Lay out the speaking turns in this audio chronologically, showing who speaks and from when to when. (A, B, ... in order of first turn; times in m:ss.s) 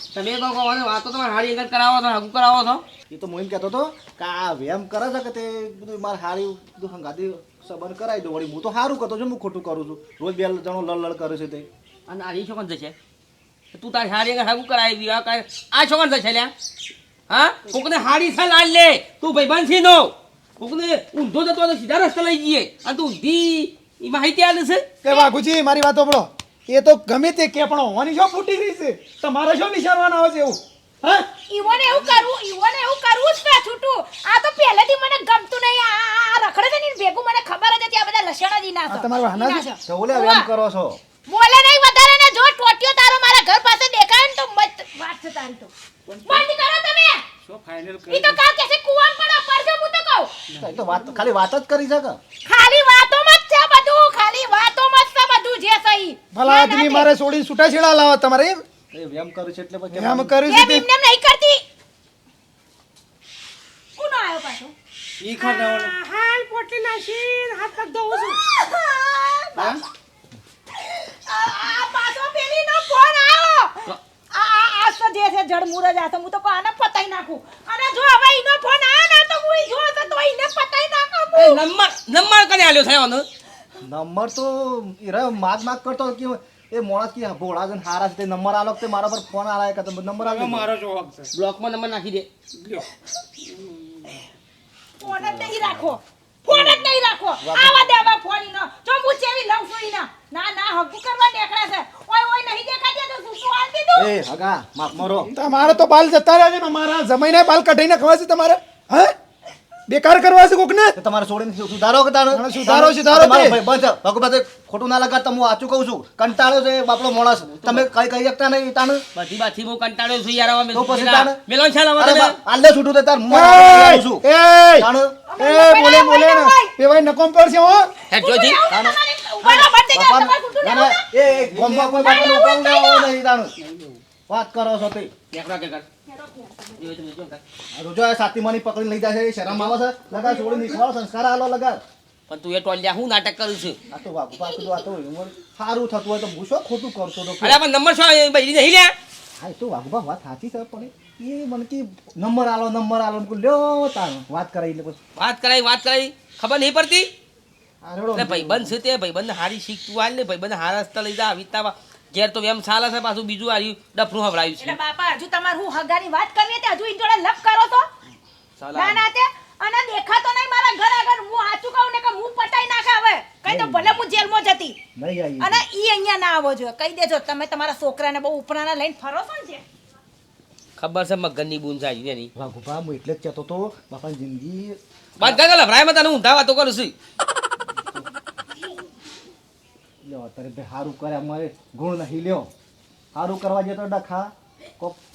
0:00.1-0:02.8 A
0:03.1-0:11.7 B
0:12.1-0:12.9 A
0:13.7-0:16.5 A
0:17.3-0:24.9 A
0:25.0-0:30.6 C
0:31.5-0:40.5 D
0:38.9-0:39.6 C
0:39.8-0:41.0 B
0:41.3-0:45.7 D
0:46.2-0:47.2 D
0:47.5-0:48.4 E
0:48.1-0:50.3 D
0:50.6-0:52.2 B
0:52.4-0:57.1 D
0:56.3-0:58.6 C
0:58.9-1:00.4 B
0:59.9-1:00.8 C
1:00.5-1:01.6 D
1:04.0-1:04.7 D
1:05.2-1:05.9 E
1:05.4-1:06.0 D
1:06.0-1:08.3 F
1:07.7-1:09.8 D
1:11.1-1:21.6 D
1:21.3-1:23.2 A
1:23.8-1:30.7 B
1:30.2-1:31.3 E
1:31.3-1:32.8 A
1:35.0-1:44.1 D
1:35.1-1:35.5 B
1:36.5-1:36.9 B
1:37.4-1:38.1 B
1:44.0-1:45.3 B
1:45.3-1:49.1 C
1:49.9-1:51.0 C
1:51.0-1:59.0 B
1:52.3-1:53.6 C
1:57.4-1:57.9 A
1:59.1-2:02.4 A
2:00.7-2:01.4 B
2:02.0-2:04.2 B
2:03.3-2:07.9 C
2:04.8-2:05.2 B
2:05.3-2:06.7 D
2:08.1-2:11.1 D
2:08.1-2:08.6 A
2:08.7-2:13.5 B
2:11.3-2:12.1 A
2:11.8-2:13.1 D
2:13.6-2:14.0 A
2:14.3-2:15.1 B
2:15.3-2:15.8 A
2:16.8-2:17.4 A
2:17.7-2:21.8 B
2:19.5-2:19.8 A
2:20.3-2:20.6 C
2:22.3-2:23.8 A
2:23.9-2:27.6 B
2:27.4-2:28.9 A
2:29.4-2:35.0 B
2:35.2-2:37.1 A
2:37.8-2:38.7 B
2:38.1-2:44.8 A
2:44.6-2:47.9 D
2:48.6-2:49.0 A
2:48.7-2:54.8 D
2:53.4-2:54.0 B
2:55.0-2:55.6 B
2:55.4-2:59.6 D
3:00.8-3:02.3 A
3:02.4-3:05.4 B
3:05.2-3:06.9 A
3:10.0-3:12.5 B
3:13.1-3:15.0 B